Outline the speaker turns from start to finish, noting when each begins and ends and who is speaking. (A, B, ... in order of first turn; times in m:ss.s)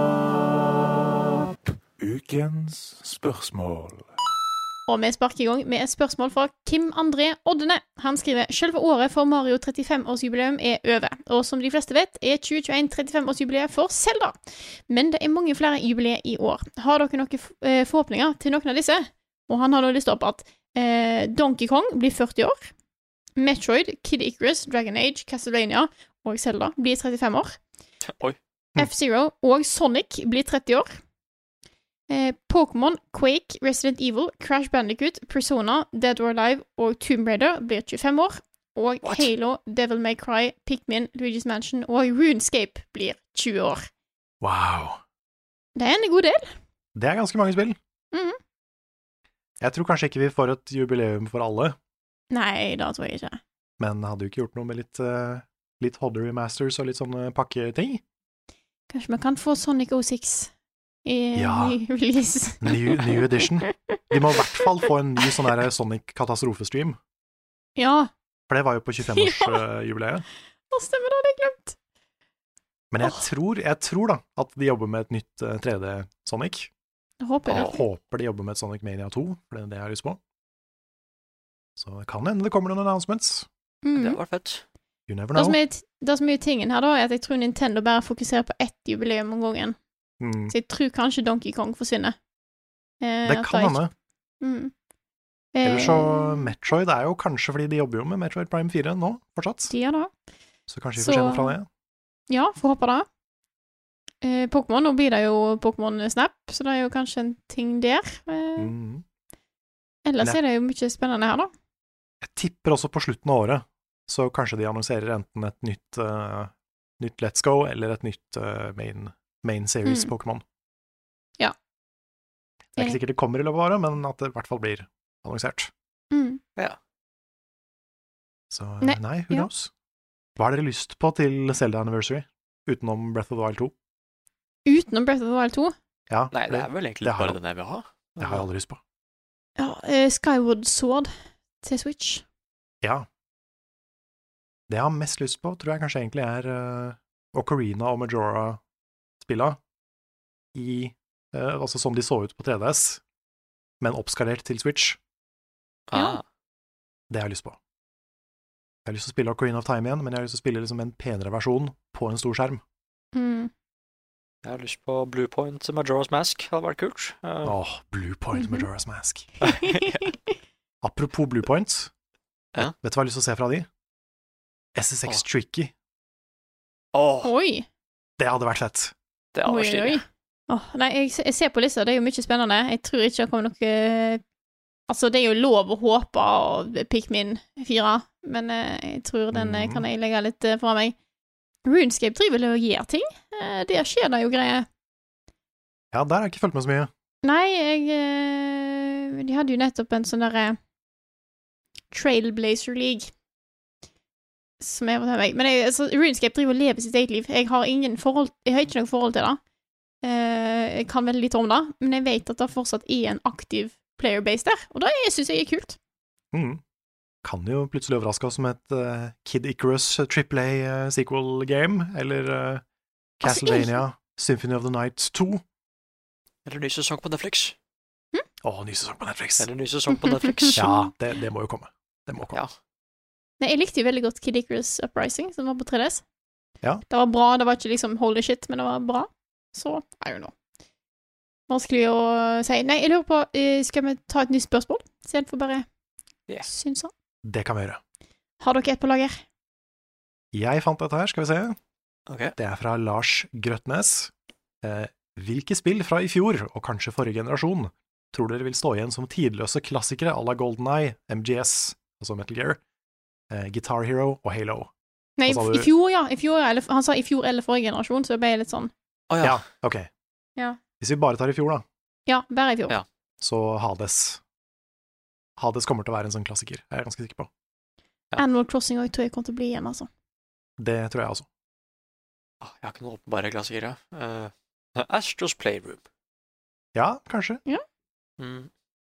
0:02.0-0:04.1 A
0:04.9-0:22.7 B
0:23.4-0:27.6 B
0:28.0-0:28.4 C
0:28.8-0:31.0 B
0:32.1-0:43.9 B
0:39.0-0:39.3 C
0:44.4-0:45.0 D
0:45.8-0:46.5 B
0:46.9-0:47.8 D
0:48.1-0:48.4 B
0:49.6-0:51.8 D
0:52.3-0:53.4 B
0:53.8-0:58.0 D
0:58.9-1:00.5 B
1:01.0-1:04.7 B
1:01.3-1:01.8 D
1:02.6-1:07.0 D
1:07.8-1:08.1 B
1:08.5-1:10.2 D
1:09.0-1:09.6 B
1:10.7-1:11.8 B
1:12.9-1:16.7 D
1:17.2-1:17.8 B
1:17.5-1:20.2 D
1:21.8-1:23.5 D
1:23.8-1:24.2 B
1:24.0-1:24.6 C
1:25.1-1:25.6 D
1:25.3-1:29.8 B
1:30.2-1:30.5 D
1:30.5-1:32.2 B
1:33.0-1:33.8 B
1:33.2-1:33.9 D
1:34.4-1:34.7 B
1:35.5-1:36.5 B
1:35.6-1:39.7 D
1:39.7-1:40.1 B
1:40.7-1:41.7 D
1:41.0-1:41.5 B
1:42.3-1:43.0 B
1:44.2-1:48.7 B
1:48.6-1:49.0 D
1:50.0-1:51.5 B
1:52.2-2:00.4 D
1:59.8-2:00.1 B
2:02.8-2:05.7 D
2:06.1-2:06.4 B
2:08.5-2:09.7 D
2:08.8-2:09.5 B
2:10.4-2:13.7 D
2:14.6-2:15.7 B
2:16.1-2:17.4 D
2:16.3-2:18.4 C
2:18.2-2:18.8 D
2:19.6-2:21.1 B
2:21.6-2:22.2 B
2:22.8-2:23.1 D
2:24.7-2:28.6 D
2:29.2-2:29.6 D
2:30.5-2:33.0 D
2:33.8-2:35.0 D
2:35.9-2:36.2 C
2:35.9-2:36.2 B
2:37.1-2:37.6 D
2:38.8-2:42.6 D
2:43.1-2:43.5 B
2:44.4-2:47.6 C
2:47.4-2:49.3 D
2:48.3-2:48.6 B
2:49.4-2:50.1 C
2:49.4-2:50.1 B
2:50.8-2:51.9 D
2:52.6-2:53.7 D
2:54.7-2:55.7 D
2:56.9-2:57.3 C
2:57.2-2:57.6 B
2:58.2-2:58.9 D
2:59.3-3:00.0 C
2:59.4-3:04.2 B
3:04.9-3:10.9 B
3:09.3-3:09.8 D
3:11.6-3:14.6 B
3:15.9-3:16.9 D
3:17.2-3:20.6 B
3:21.9-3:23.1 B
3:24.6-3:29.4 B
3:30.0-3:35.8 B
3:36.3-3:36.6 D
3:37.2-3:42.6 D
3:43.2-3:45.4 D
3:43.2-3:43.8 B
3:46.4-3:47.5 C
3:48.4-3:49.5 D
3:49.4-3:50.6 C
3:49.9-3:50.9 B
3:50.5-3:52.4 D
3:53.4-3:56.0 B
3:56.9-4:00.3 B
4:01.5-4:05.6 B
4:06.4-4:06.9 B
4:07.2-4:07.8 D
4:08.4-4:09.2 B
4:10.3-4:11.6 D
4:12.1-4:12.3 C
4:12.4-4:14.1 D
4:14.6-4:22.6 D
4:23.3-4:24.7 D
4:25.2-4:28.7 B
4:25.2-4:25.7 D
4:29.1-4:29.4 C
4:29.2-4:29.9 D
4:30.8-4:31.6 D
4:32.1-4:32.8 B
4:33.2-4:34.2 D
4:35.4-4:37.3 D
4:38.2-4:39.9 B
4:40.6-4:41.2 D
4:42.4-4:45.8 C
4:46.7-4:47.4 D
4:48.2-4:48.5 C